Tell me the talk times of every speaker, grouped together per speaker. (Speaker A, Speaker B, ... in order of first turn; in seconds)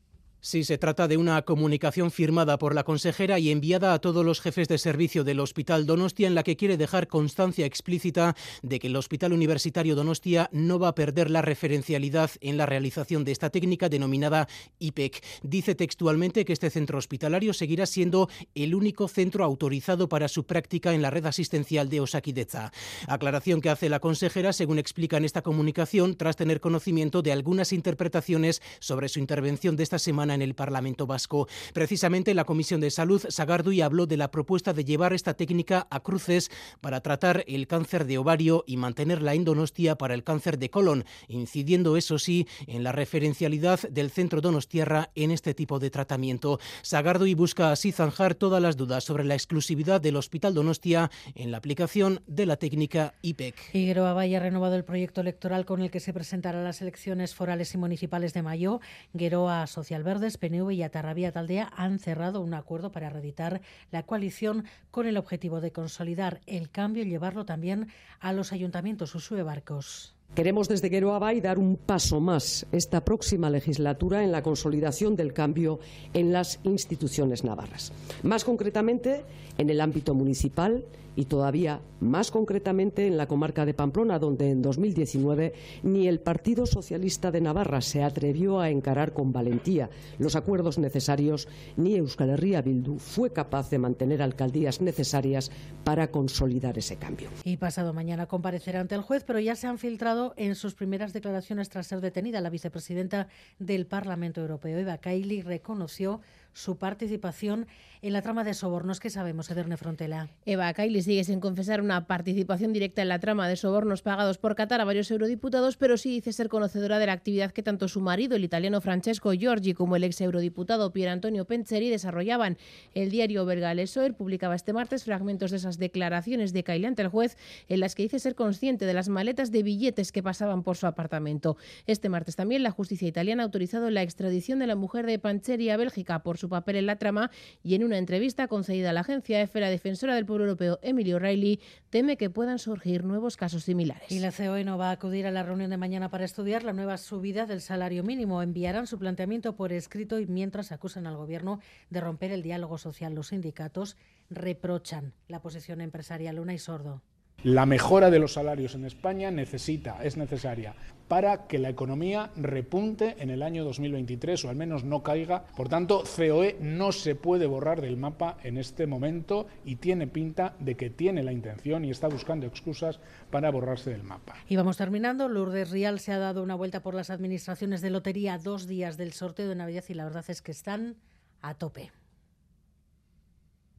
Speaker A: 0.4-53.6
Speaker B: 53.7-70.1, 97.4-110.3, 144.1-157.0, 174.5-181.9
Speaker C: 70.3-97.3
Speaker D: 110.5-144.2
Speaker E: 157.4-174.4